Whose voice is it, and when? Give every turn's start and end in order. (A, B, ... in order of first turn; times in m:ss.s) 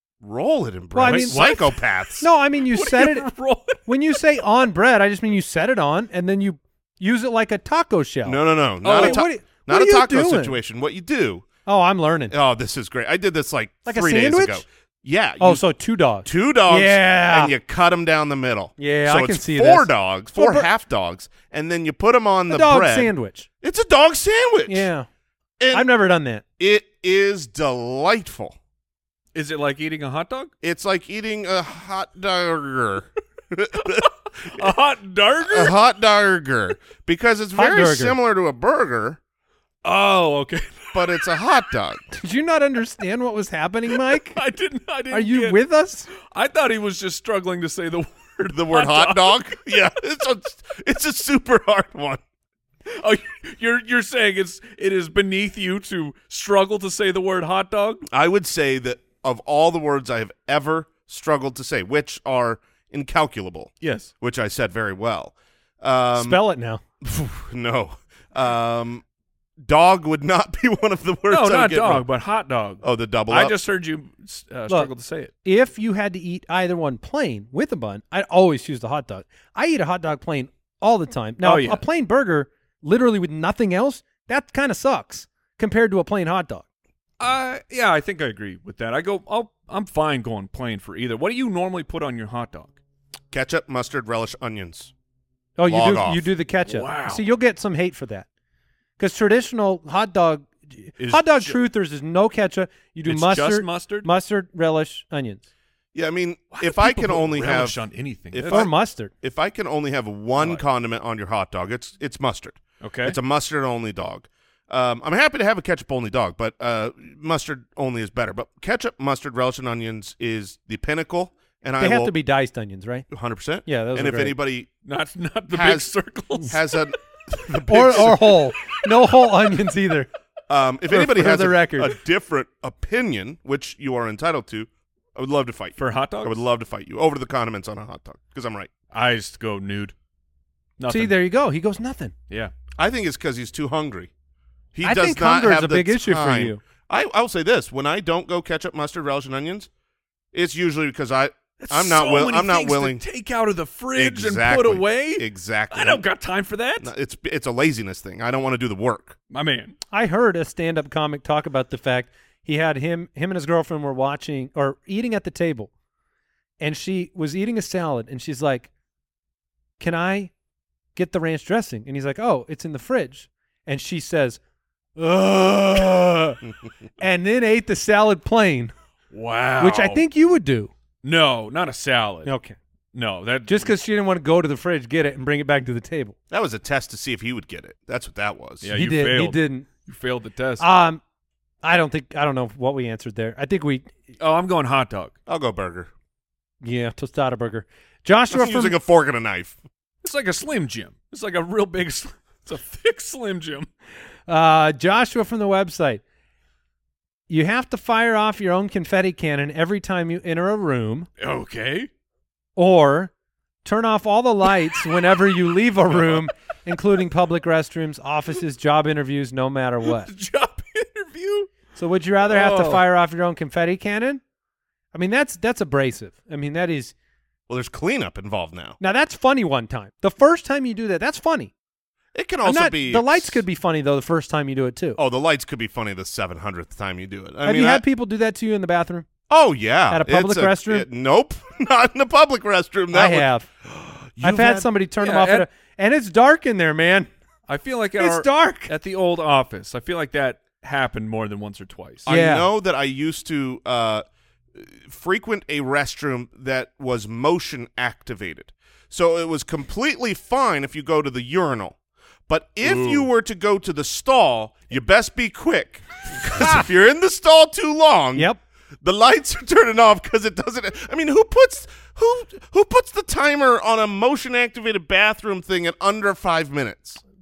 0:00.2-0:02.3 A
0:00.9-0:01.5 B
0:01.0-0:01.8 C
0:02.2-0:03.3 B
0:02.7-0:04.2 C
0:03.9-0:10.6 B
0:08.2-0:11.5 A
0:08.9-0:09.2 C
0:11.7-0:12.4 B
0:12.3-0:15.6 A
0:13.9-0:14.6 B
0:15.4-0:17.5 B
0:16.2-0:24.9 A
0:18.8-0:20.7 B
0:22.5-0:23.5 B
0:24.7-0:25.1 B
0:25.6-0:25.9 A
0:25.7-0:26.4 B
0:26.6-0:28.6 A
0:29.3-0:30.5 C
0:30.6-0:34.7 A
0:34.5-0:35.8 C
0:35.4-0:39.2 A
0:37.6-0:38.2 B
0:39.8-0:41.2 C
0:40.9-0:42.0 A
0:42.1-0:44.4 B
0:44.1-0:45.6 C
0:45.1-0:46.1 B
0:46.2-0:49.6 C
0:48.5-0:52.2 A
0:52.9-0:58.1 C
0:58.1-1:06.4 A
1:03.8-1:04.1 C
1:06.2-1:06.8 B
1:07.0-1:09.0 A
1:09.6-1:12.0 A
1:11.3-1:15.3 C
1:12.8-1:13.6 A
1:15.4-1:26.6 B
1:21.4-1:21.8 C
1:27.2-1:32.8 C
1:33.3-1:34.9 A
1:35.6-1:38.3 B
1:35.7-1:36.3 A
1:36.7-1:37.2 C
1:39.0-1:45.4 B
1:41.0-1:41.6 C
1:43.1-1:44.1 C
1:45.9-1:47.8 A
1:46.5-1:48.7 C
1:48.3-2:02.1 A
1:48.5-1:49.1 B
1:52.8-1:53.2 C
2:01.8-2:03.1 B
2:03.1-2:04.7 A
2:03.7-2:04.4 B
2:04.8-2:06.8 C
2:05.5-2:08.4 A
2:07.7-2:10.1 B
2:10.5-2:18.7 A
2:10.9-2:12.0 B
2:15.8-2:16.4 C
2:18.9-2:19.9 C
2:20.8-2:21.2 C
2:20.9-2:22.1 B
2:22.8-2:24.1 A
2:24.7-2:29.7 A
2:24.8-2:26.6 B
2:30.3-2:33.0 A
2:31.6-2:36.9 C
2:34.0-2:36.0 A
2:36.8-2:39.2 A
2:39.3-2:39.8 C
2:39.9-2:45.7 B
2:46.6-2:48.7 B
2:49.8-2:50.3 B
2:51.0-2:54.4 B
2:55.0-2:56.4 B
2:57.0-2:58.7 B
2:59.1-3:00.0 C
2:59.6-3:00.7 B
3:01.0-3:02.3 C
3:02.3-3:02.6 B
3:02.9-3:03.7 C
3:03.5-3:06.2 B
3:06.3-3:08.7 A
3:08.6-3:10.7 C
3:08.7-3:09.7 B
3:10.6-3:11.0 B
3:11.6-3:13.9 B
3:14.2-3:15.2 C
3:15.3-3:15.9 A
3:16.6-3:18.8 B
3:18.3-3:19.6 A
3:20.0-3:23.7 C
3:24.3-3:26.0 B
3:27.3-3:31.1 B
3:31.2-3:31.9 C
3:32.6-3:33.1 B
3:33.6-3:40.1 B
3:35.9-3:36.2 C
3:39.8-3:41.5 C
3:41.8-3:44.2 B
3:42.3-3:42.8 C
3:44.9-3:46.9 B
3:47.5-3:48.8 A
3:48.8-3:51.5 B
3:52.1-3:53.4 A
3:52.4-3:55.0 B
3:55.0-3:57.8 A
3:57.4-3:59.1 B
3:59.3-4:04.7 A
3:59.9-4:00.9 B
4:02.9-4:03.5 B
4:04.2-4:07.1 B
4:05.0-4:05.5 C
4:07.5-4:12.1 C
4:08.0-4:08.7 B
4:12.1-4:14.0 A
4:12.1-4:12.5 B
4:14.6-4:21.8 A
4:22.3-4:28.3 A
4:22.6-4:23.1 C
4:28.2-4:28.4 B
4:28.8-4:37.0 A